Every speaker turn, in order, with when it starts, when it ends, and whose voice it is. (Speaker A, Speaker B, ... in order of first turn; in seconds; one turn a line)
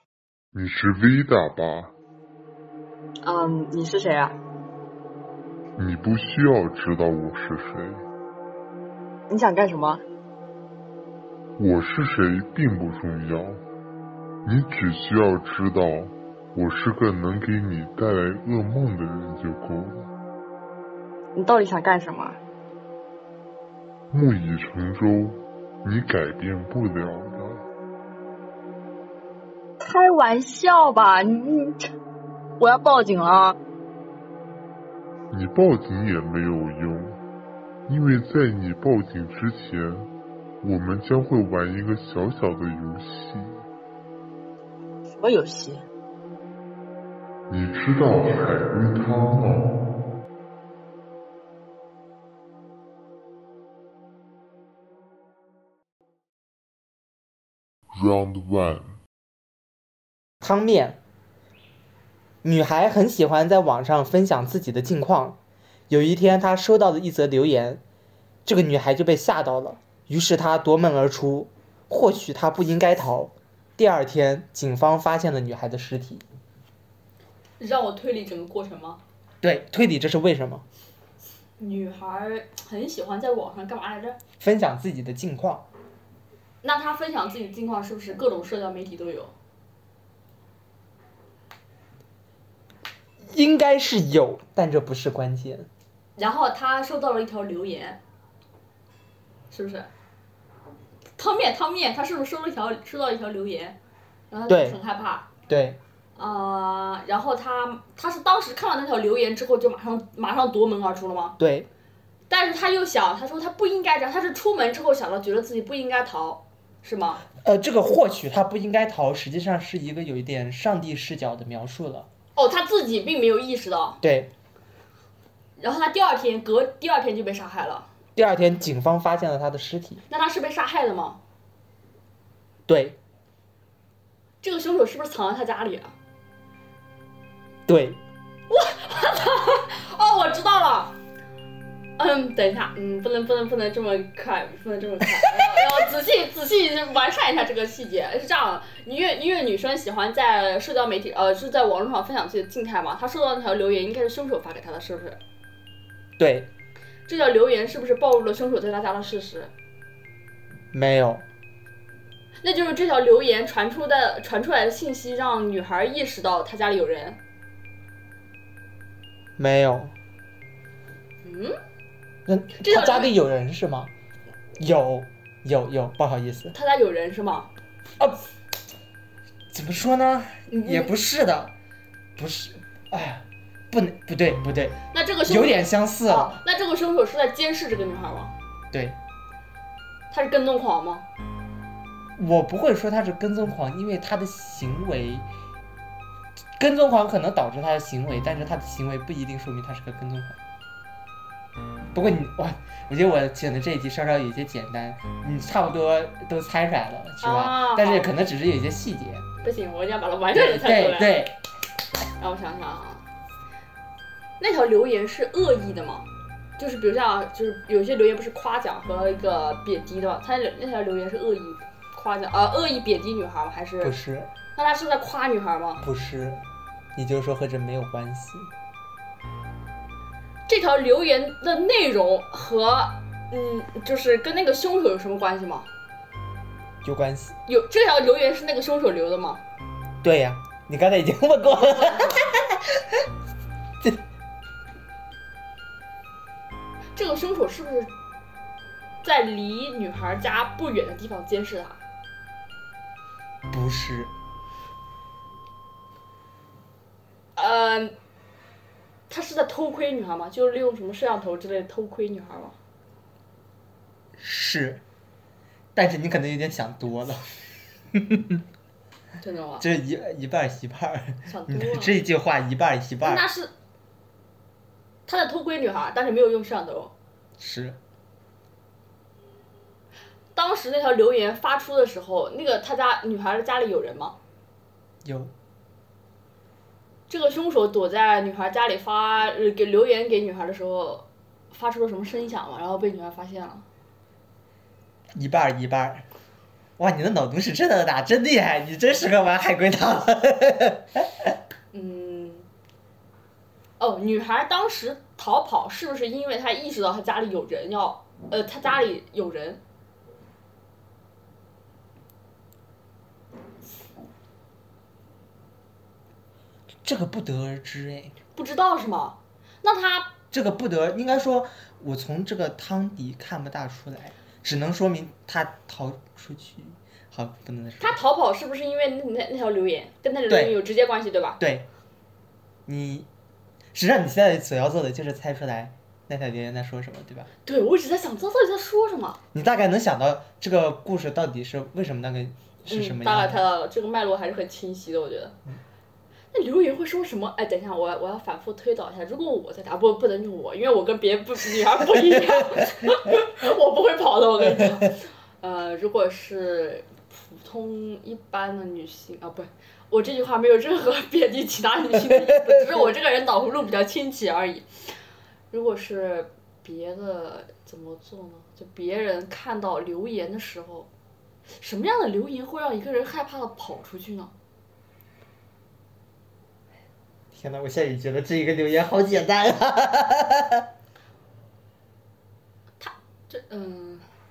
Speaker A: 0.5-1.9
Speaker B: 3.2-4.3
Speaker A: 5.8-8.0
Speaker B: 9.3-10.0
Speaker A: 11.6-13.6
Speaker A: 14.4-20.1
Speaker B: 21.3-22.4
Speaker A: 24.1-27.6
Speaker B: 29.9-31.8
Speaker B: 32.6-33.6
Speaker A: 35.3-37.2
Speaker A: 37.9-40.1
Speaker A: 40.6-43.6
Speaker B: 45.1-45.8
Speaker A: 47.5-49.7
Speaker A: 57.9-59.0
Speaker C: 60.4-61.0
Speaker C: 62.4-65.4
Speaker C: 65.9-67.8
Speaker C: 68.4-76.2
Speaker D: 77.6-79.0
Speaker C: 79.4-80.6
Speaker D: 81.6-84.2
Speaker C: 84.4-85.7
Speaker D: 86.6-89.3
Speaker C: 93.3-95.7
Speaker D: 96.2-98.0
Speaker D: 99.5-99.9
Speaker D: 101.2-103.8
Speaker D: 104.3-105.3
Speaker C: 104.5-104.8
Speaker C: 105.5-105.8
Speaker D: 106.2-111.3
Speaker C: 111.4-111.7
Speaker D: 112.3-117.2
Speaker C: 117.3-122.1
Speaker D: 122.3-124.0
Speaker C: 124.0-124.3
Speaker D: 125.6-127.9
Speaker C: 128.1-130.0
Speaker D: 130.1-131.2
Speaker C: 132.7-133.0
Speaker D: 134.4-135.9
Speaker C: 137.7-138.0
Speaker D: 138.5-140.9
Speaker D: 142.0-155.2
Speaker C: 156.2-156.5
Speaker D: 157.1-159.5
Speaker C: 160.7-161.2
Speaker D: 162.4-167.2
Speaker C: 169.4-169.9
Speaker D: 171.2-171.6
Speaker C: 172.2-173.9
Speaker D: 172.6-173.1
Speaker C: 174.6-176.5
Speaker D: 176.5-177.5
Speaker C: 179.5-181.5
Speaker C: 182.2-186.4
Speaker D: 184.9-188.3
Speaker C: 188.7-189.0
Speaker D: 190.1-191.0
Speaker C: 192.2-195.3
Speaker C: 196.6-200.4
Speaker C: 201.9-209.2
Speaker D: 207.2-208.1
Speaker D: 209.4-211.1
Speaker C: 210.3-211.4
Speaker D: 212.2-213.0
Speaker D: 214.4-216.1
Speaker D: 216.6-223.9
Speaker C: 223.8-224.3
Speaker D: 224.5-225.8
Speaker C: 225.8-226.4
Speaker C: 226.9-228.5
Speaker D: 230.5-235.7
Speaker C: 236.8-237.3
Speaker D: 237.5-239.4
Speaker C: 240.0-243.0
Speaker D: 241.5-242.2
Speaker D: 246.9-247.9
Speaker D: 249.0-251.8
Speaker C: 253.5-254.1
Speaker D: 257.4-257.9
Speaker D: 259.1-262.6
Speaker C: 264.2-264.8
Speaker C: 265.7-267.3
Speaker C: 267.9-268.4
Speaker D: 269.2-269.6
Speaker C: 269.6-273.2
Speaker D: 271.3-271.9
Speaker D: 273.0-273.5
Speaker D: 275.1-276.9
Speaker C: 277.4-277.8
Speaker D: 280.3-284.1
Speaker C: 285.0-285.3
Speaker D: 287.1-293.6
Speaker C: 295.1-296.1
Speaker C: 296.8-301.3
Speaker D: 301.7-302.5
Speaker D: 303.8-309.6
Speaker C: 316.8-318.1
Speaker D: 318.3-320.1
Speaker C: 320.3-328.0
Speaker D: 327.8-331.4
Speaker C: 330.3-330.6
Speaker C: 331.4-331.6
Speaker C: 332.6-333.1
Speaker C: 333.7-337.3
Speaker D: 337.4-339.2
Speaker C: 339.3-343.4
Speaker D: 342.7-345.3
Speaker D: 346.3-364.9
Speaker C: 352.0-352.6
Speaker C: 362.1-362.9
Speaker D: 365.5-370.9
Speaker D: 371.5-374.3
Speaker C: 377.3-380.7
Speaker D: 382.8-384.0